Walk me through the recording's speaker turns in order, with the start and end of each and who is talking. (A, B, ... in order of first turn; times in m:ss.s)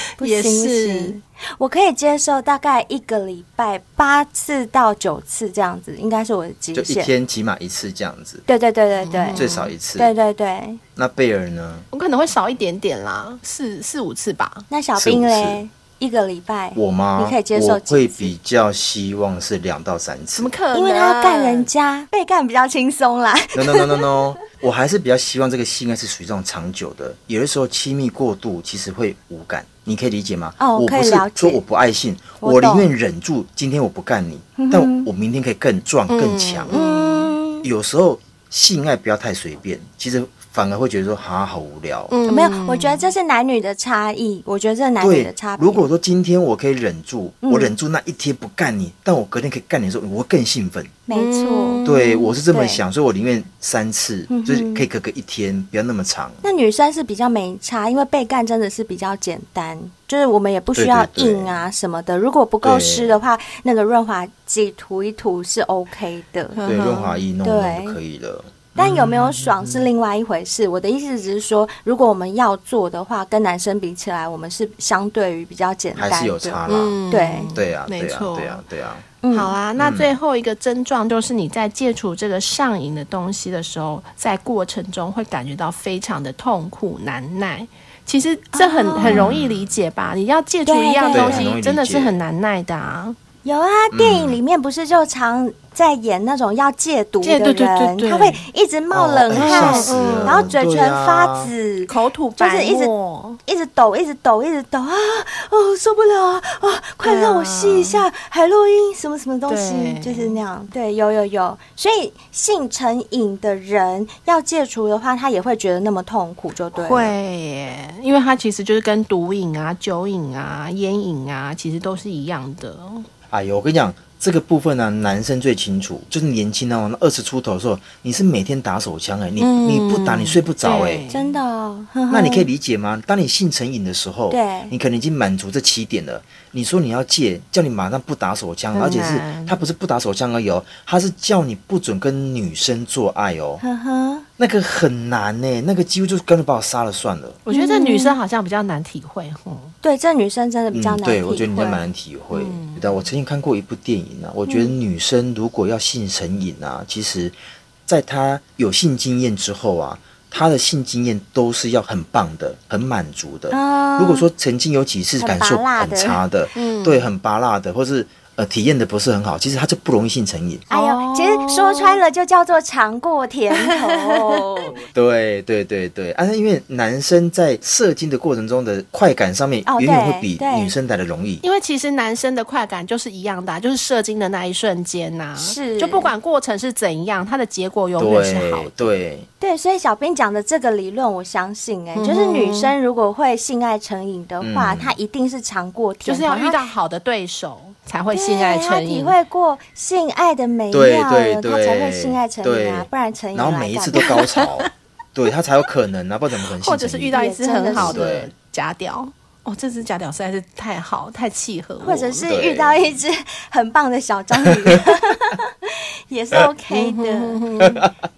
0:00.2-0:01.2 A
0:00.2-0:07.1 B
0:06.7-0:08.4 C
0:08.5-0:09.4 B
0:09.0-0:09.7 A
0:09.4-0:10.1 C
0:10.0-0:10.8 B
0:11.0-0:11.9 C
0:11.9-0:14.7 A
0:14.7-0:18.3 B
0:15.0-0:15.6 C
0:16.8-0:20.5 C
0:20.4-0:21.7 A
0:20.7-0:24.1 B
0:23.5-0:36.7 C
0:30.6-0:31.6 B
0:32.4-0:32.9 B
0:34.6-0:35.1 B
0:36.1-0:37.3 A
0:36.7-0:37.7 B
0:37.6-0:42.1 C
0:42.1-0:43.0 A
0:42.3-0:45.8 B
0:45.0-0:50.9 C
0:47.4-0:47.7 B
0:51.1-0:51.8 B
0:51.1-0:52.4 A
0:51.8-0:56.4 C
0:52.5-0:52.8 B
0:54.3-0:54.9 B
0:56.4-1:06.6 B
1:00.8-1:01.6 C
1:02.6-1:03.2 C
1:06.6-1:07.2 A
1:06.6-1:09.9 C
1:07.4-1:08.0 B
1:08.8-1:16.6 B
1:16.0-1:17.0 C
1:16.7-1:18.6 A
1:17.1-1:17.5 B
1:17.5-1:19.0 C
1:19.2-1:19.6 B
1:19.3-1:33.2 A
1:19.8-1:20.2 C
1:28.6-1:29.3 B
1:29.0-1:29.7 C
1:30.7-1:31.5 B
1:31.1-1:32.2 C
1:33.4-1:42.9 B
1:33.9-1:34.4 C
1:37.2-1:38.4 A
1:38.9-1:41.5 C
1:39.3-1:40.5 A
1:41.9-1:43.4 A
1:43.4-1:57.1 B
1:47.0-1:48.0 A
1:49.5-1:50.4 A
1:56.7-2:03.0 A
2:03.3-2:11.0 C
2:09.4-2:11.4 A
2:11.1-2:12.5 B
2:12.1-2:23.6 C
2:14.3-2:14.7 B
2:18.7-2:19.6 A
2:23.6-2:24.3 B
2:24.4-2:27.4 C
2:27.5-2:29.7 A
2:27.5-2:28.2 B
2:29.8-2:31.8 B
2:30.7-2:37.3 C
2:32.3-2:32.9 A
2:34.5-2:34.7 B
2:37.9-2:50.7 C
2:43.5-2:44.3 B
2:45.2-2:46.2 B
2:46.6-2:47.1 A
2:50.7-2:52.0 A
2:50.7-2:54.8 B
2:53.6-2:54.4 A
2:54.9-3:01.4 C
2:59.7-3:00.7 B
3:01.4-3:08.7 A
3:05.4-3:06.1 B
3:08.0-3:09.3 C
3:09.4-3:16.6 B
3:12.0-3:12.7 A
3:14.4-3:15.0 C
3:16.0-3:19.2 A
3:18.1-3:24.1 B
3:20.7-3:27.2 C
3:24.0-3:24.7 A
3:26.5-3:32.2 A
3:27.1-3:28.0 B
3:27.7-3:28.3 C
3:31.8-3:37.4 B
3:32.2-3:33.0 C
3:36.7-3:37.9 A
3:37.6-3:37.9 C